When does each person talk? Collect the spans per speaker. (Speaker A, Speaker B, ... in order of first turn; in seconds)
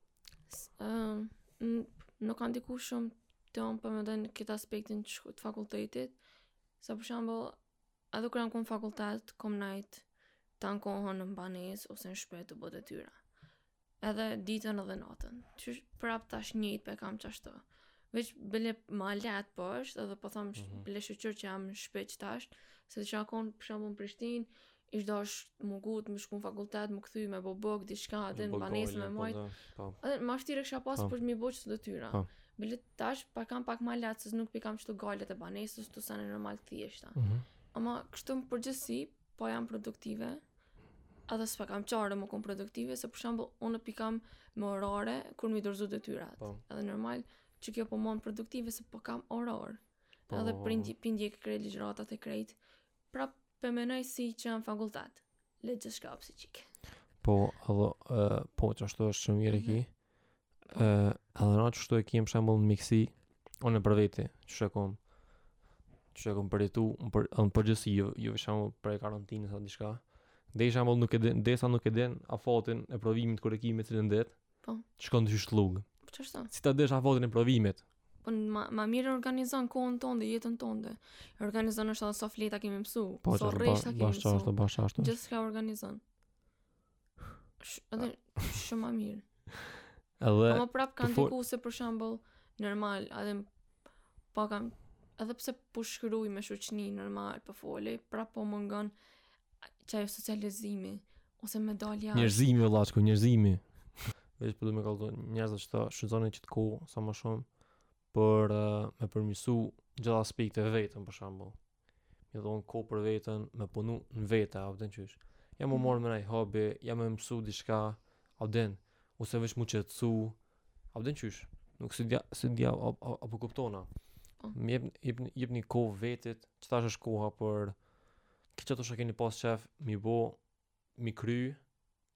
Speaker A: 0.5-6.2, 6.8-7.6, 8.1-10.1, 10.6-13.2, 14.0-29.4, 30.0-37.1, 37.7-40.4, 41.3-52.6, 53.1-56.7, 59.5-59.8, 76.0-76.5, 78.2-86.0, 87.6-89.2, 90.5-93.5, 94.3-98.9, 99.8-102.4
Speaker B: 20.6-20.9, 28.3-30.0, 37.1-37.4, 50.3-50.9, 57.2-65.4, 66.1-77.8, 83.2-85.1, 90.2-91.3, 102.1-120.4, 120.9-123.9, 124.5-127.9, 128.5-131.7